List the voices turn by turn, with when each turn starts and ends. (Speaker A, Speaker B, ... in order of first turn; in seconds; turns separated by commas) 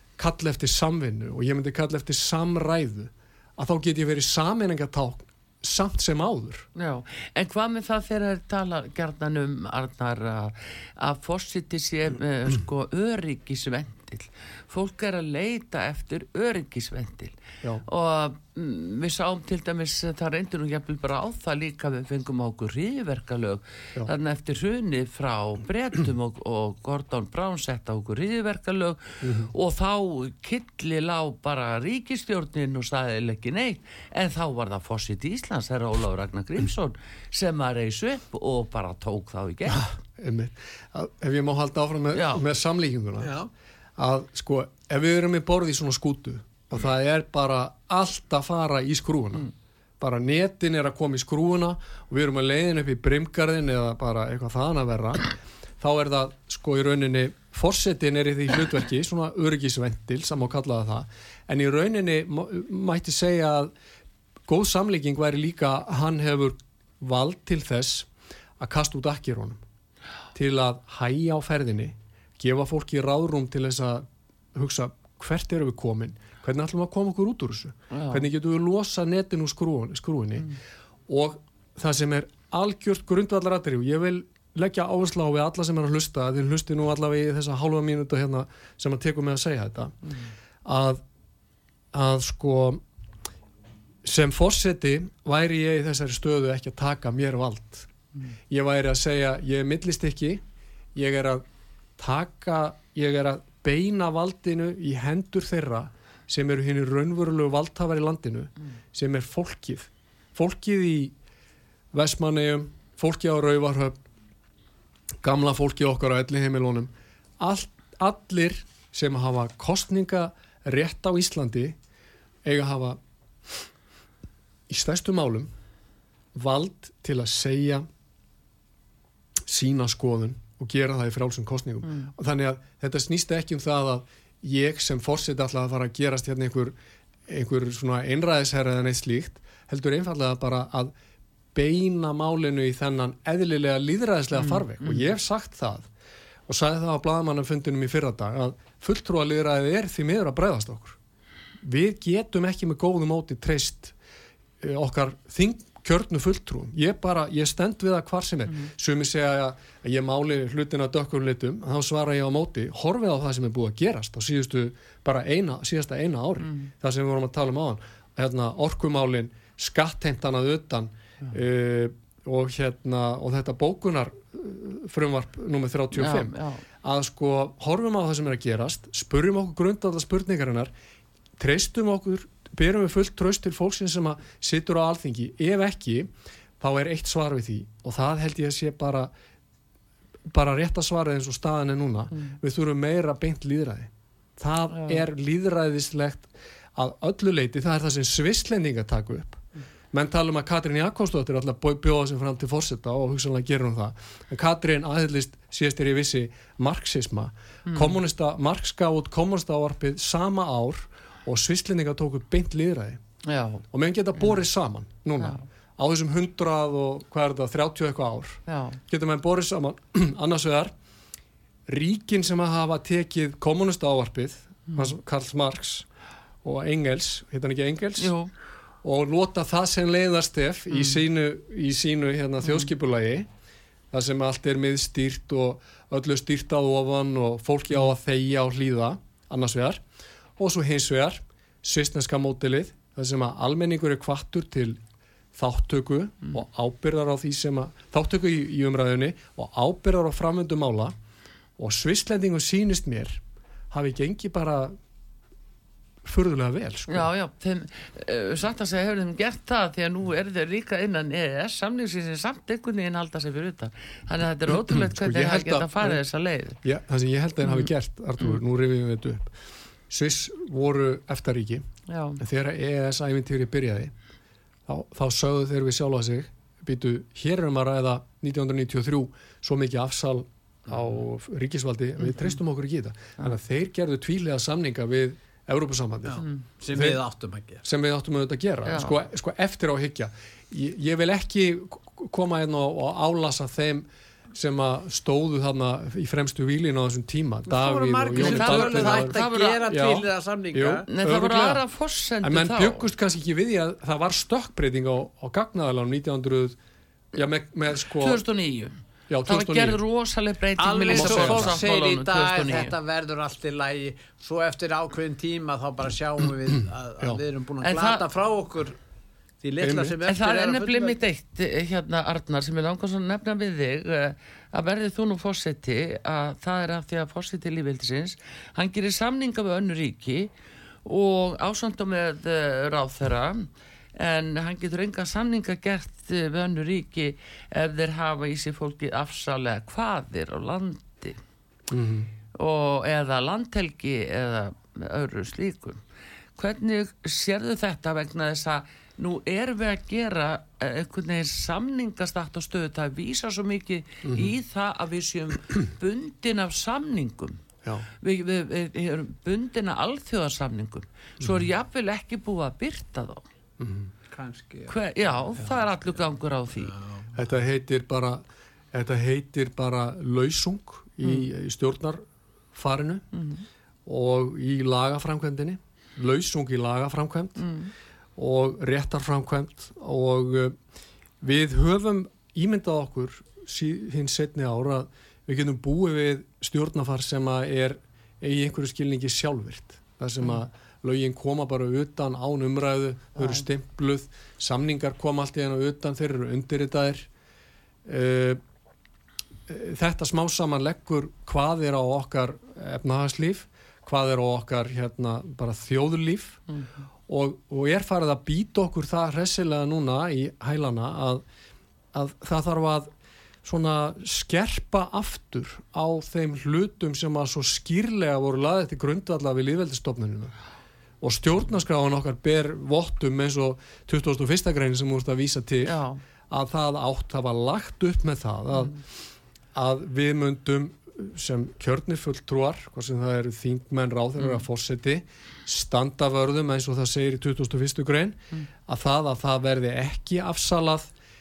Speaker A: 0.2-6.7, Speaker B: 6.8-39.9, Speaker A: 29.2-29.5, Speaker A: 39.7-43.3, Speaker B: 42.1-42.4, Speaker C: 43.2-43.5, Speaker A: 44.0-49.5, Speaker A: 50.0-63.7, Speaker A: 64.5-68.1, Speaker A: 68.6-69.6, Speaker A: 70.3-80.5, Speaker B: 77.9-78.2, Speaker A: 81.1-89.9, Speaker A: 90.6-91.0, Speaker A: 91.9-92.8, Speaker A: 94.0-97.9, Speaker A: 98.5-100.4, Speaker A: 100.9-101.4, Speaker A: 102.0-111.1, Speaker A: 111.9-114.0, Speaker A: 115.2-121.8, Speaker A: 122.4-123.0, Speaker A: 124.7-125.5, Speaker A: 126.3-127.8, Speaker A: 129.4-136.8, Speaker A: 137.3-140.9, Speaker A: 141.5-145.9, Speaker B: 144.4-145.1, Speaker A: 146.5-151.0, Speaker A: 151.6-153.9, Speaker A: 154.6-180.7, Speaker B: 175.9-176.6, Speaker A: 181.4-189.1, Speaker A: 190.3-199.4, Speaker B: 194.7-195.0, Speaker A: 199.9-213.0, Speaker B: 207.7-208.0, Speaker B: 213.2-213.6, Speaker A: 213.7-220.7, Speaker B: 215.2-215.4, Speaker B: 218.5-218.8, Speaker A: 221.7-225.8, Speaker A: 226.4-228.1, Speaker B: 228.0-228.3, Speaker A: 228.8-233.3, Speaker A: 233.9-239.8, Speaker A: 240.4-244.8, Speaker A: 245.3-250.9, Speaker A: 251.6-253.2, Speaker A: 253.7-254.7, Speaker A: 256.0-257.1, Speaker B: 256.9-266.6, Speaker A: 264.5-266.0, Speaker A: 266.6-269.3, Speaker A: 269.9-271.6, Speaker B: 271.9-272.2, Speaker A: 272.2-273.9, Speaker A: 274.7-287.0, Speaker C: 286.1-287.6, Speaker A: 287.6-301.6, Speaker B: 288.7-288.9, Speaker C: 297.5-300.9, Speaker B: 298.1-299.6, Speaker B: 300.9-302.9, Speaker A: 302.2-306.6, Speaker A: 307.1-308.2, Speaker B: 307.9-308.7, Speaker A: 309.1-309.8, Speaker B: 309.2-312.7, Speaker C: 310.6-318.8, Speaker A: 310.9-311.6, Speaker B: 317.6-318.0, Speaker C: 319.4-320.9, Speaker A: 319.6-319.9, Speaker B: 320.1-330.3, Speaker B: 330.8-341.2, Speaker A: 341.7-342.1, Speaker B: 342.3-345.8, Speaker B: 346.4-357.4, Speaker A: 354.0-354.3, Speaker B: 358.0-363.2, Speaker A: 363.6-363.9, Speaker C: 364.1-364.8, Speaker B: 364.7-366.7, Speaker C: 366.6-367.1, Speaker A: 367.1-372.0, Speaker B: 371.0-371.3, Speaker A: 372.5-373.1, Speaker B: 373.1-373.4, Speaker A: 373.9-377.5, Speaker B: 377.4-377.7, Speaker A: 378.2-380.6, Speaker A: 381.2-397.1, Speaker A: 397.9-398.4, Speaker A: 399.5-406.4, Speaker A: 407.1-411.2, Speaker A: 411.9-412.9, Speaker A: 413.4-420.3, Speaker A: 421.0-428.8, Speaker B: 425.6-426.0, Speaker A: 429.5-440.9